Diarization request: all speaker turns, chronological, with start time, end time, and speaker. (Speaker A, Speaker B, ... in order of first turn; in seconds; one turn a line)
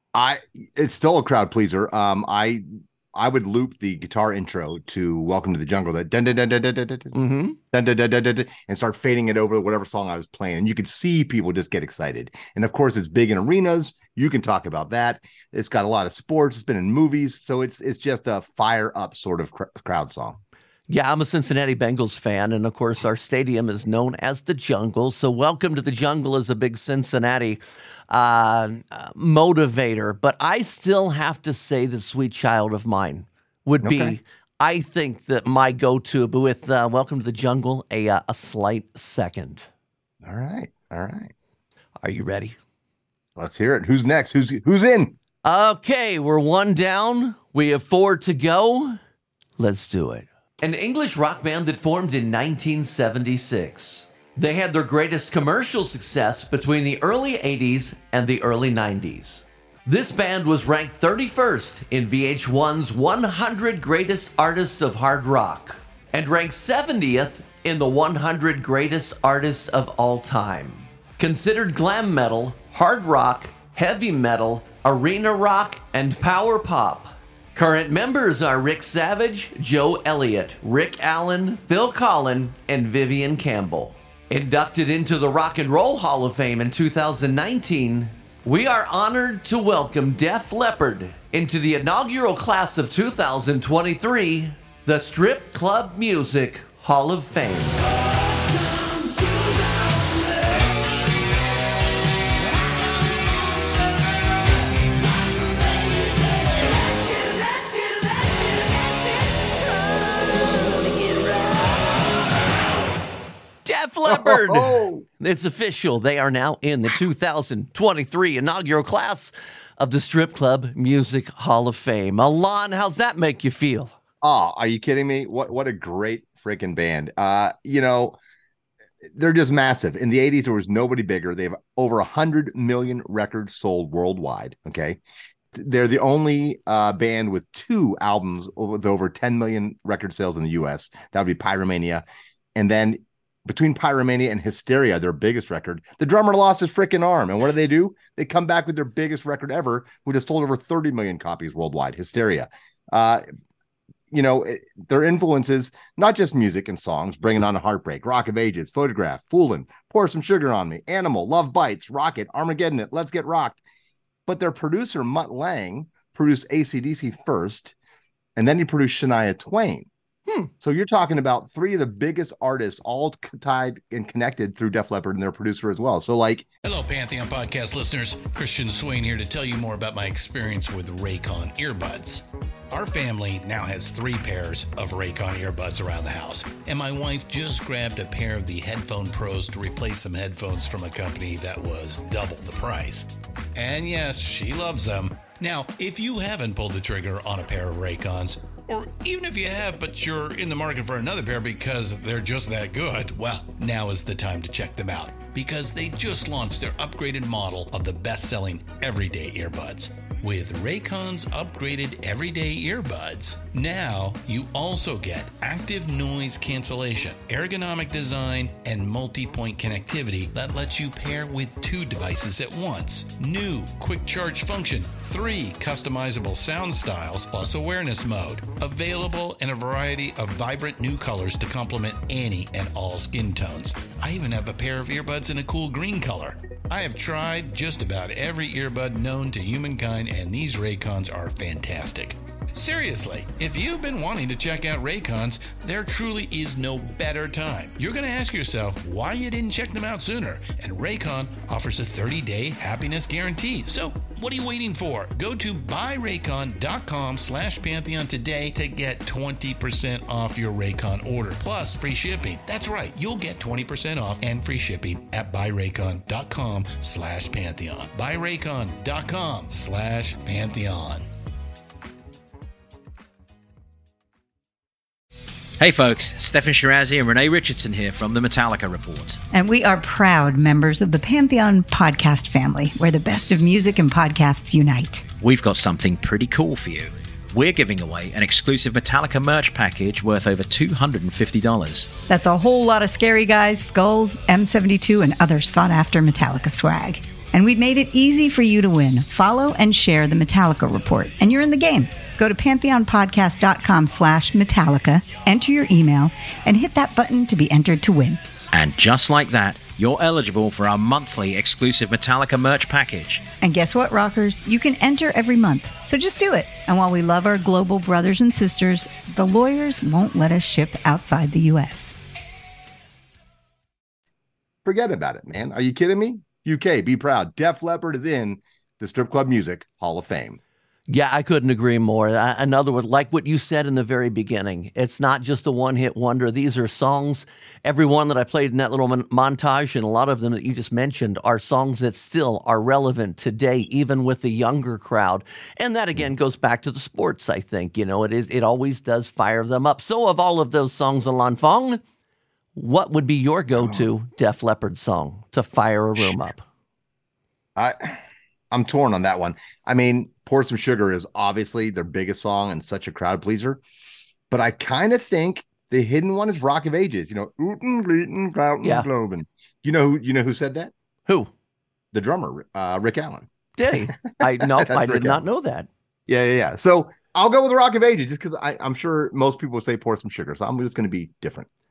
Speaker A: 0.1-7.2
Speaker B: 7.1-7.6
Speaker A: 7.7-20.4
Speaker B: 20.9-39.7
Speaker A: 33.8-34.1
Speaker A: 40.2-41.3
Speaker B: 42.0-42.6
Speaker A: 43.4-45.1
Speaker B: 45.4-49.0
Speaker B: 49.6-97.8
Speaker B: 113.6-123.9
Speaker A: 114.1-115.0
Speaker A: 124.2-128.2
Speaker A: 129.1-135.0
Speaker A: 135.5-153.2
Speaker A: 154.1-163.6
Speaker A: 164.2-167.7
Speaker A: 168.3-169.9
Speaker A: 170.6-176.5
Speaker C: 176.6-271.0
Speaker D: 275.6-279.2
Speaker E: 279.3-285.1
Speaker D: 285.2-292.0
Speaker E: 292.1-308.2
Speaker D: 308.5-313.2
Speaker E: 313.4-321.9
Speaker A: 324.6-330.4
Speaker B: 330.9-351.8
Speaker B: 352.6-356.4
Speaker A: 353.6-353.8
Speaker A: 357.6-358.0
Speaker A: 358.5-363.6
Speaker A: 364.3-370.7
Speaker B: 368.6-368.9
Speaker A: 371.9-373.3
Speaker B: 373.6-375.7
Speaker A: 373.8-375.2
Speaker A: 376.1-381.5